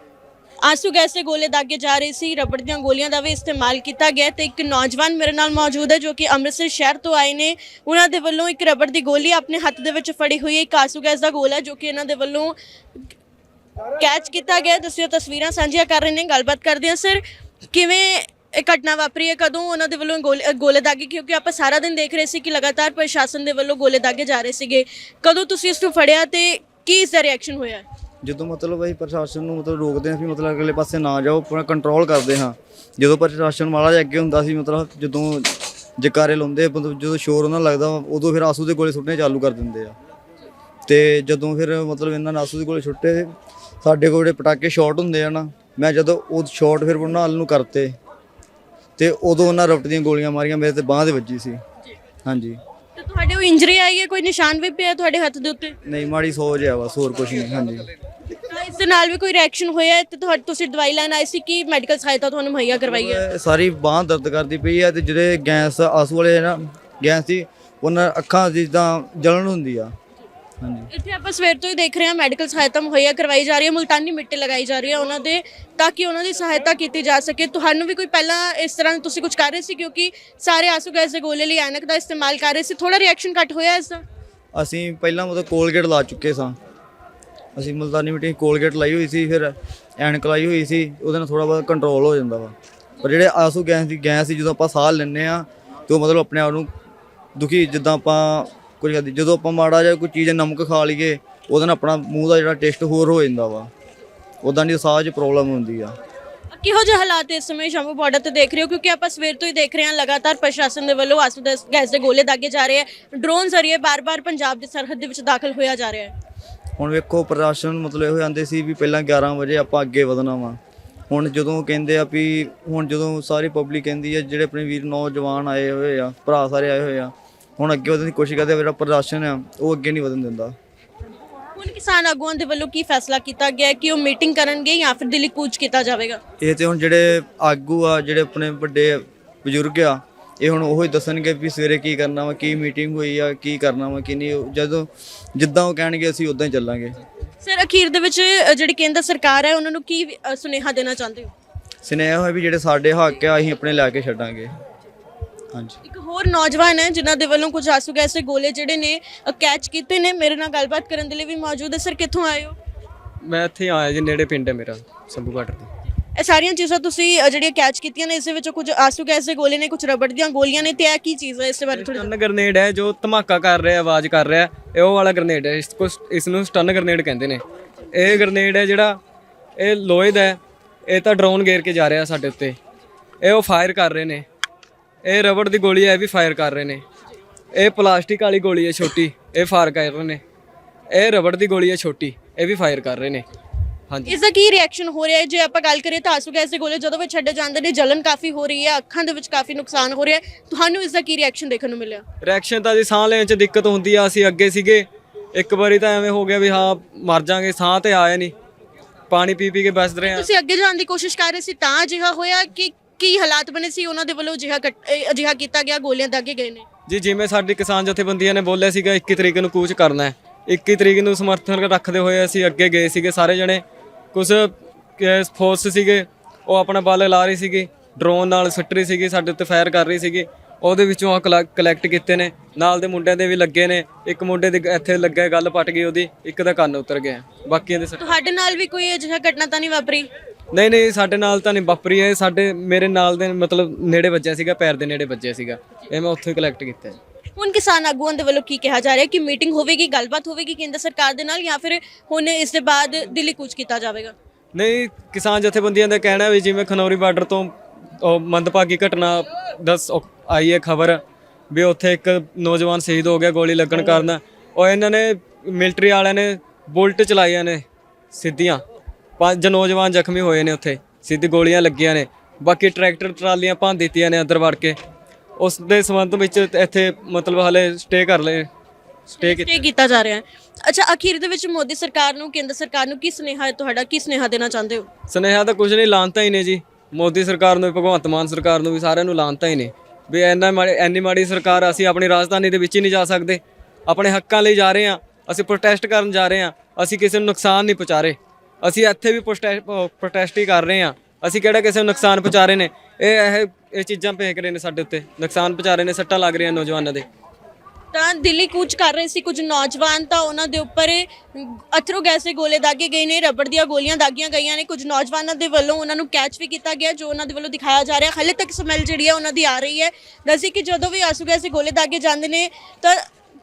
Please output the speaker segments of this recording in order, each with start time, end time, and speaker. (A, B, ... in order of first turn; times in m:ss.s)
0:00.6-0:13.0 A
0:14.0-0:27.8 A
0:28.2-0:40.0 B
0:40.9-0:48.0 B
0:49.0-0:51.6 B
0:52.2-0:52.6 B
0:53.0-0:55.8 A
0:55.8-0:57.9 B
0:58.4-1:03.2 A
1:02.8-1:09.9 B
1:10.6-1:10.9 B
1:10.9-1:24.0 A
1:24.6-1:26.6 B
1:27.6-1:36.7 B
1:37.4-1:43.7 B
1:44.4-1:46.0 B
1:46.5-1:56.1 A
1:56.8-2:10.6 B
2:11.6-2:16.2 A
2:16.4-2:27.0 B
2:27.4-2:31.3 A
2:31.8-2:34.5 B
2:35.8-2:42.6 A
2:43.2-2:45.7 C
2:46.2-2:52.1 A
2:51.7-2:59.0 C
2:59.6-3:02.6 C
3:03.2-3:04.2 C
3:05.0-3:06.8 C
3:07.5-3:10.2 C
3:10.9-3:13.2 C
3:13.9-3:14.2 C
3:14.1-3:22.0 A
3:22.2-3:28.3 C
3:29.1-3:30.3 C
3:30.0-3:36.7 A
3:36.9-3:58.1 C
3:58.0-4:00.1 A
4:00.5-4:07.0 C
4:07.4-4:14.1 A
4:14.6-4:28.6 C
4:29.2-4:34.8 C
4:35.4-4:38.5 C
4:39.2-4:39.6 C
4:39.2-4:44.9 A
4:45.1-5:07.1 C
5:07.9-5:23.0 A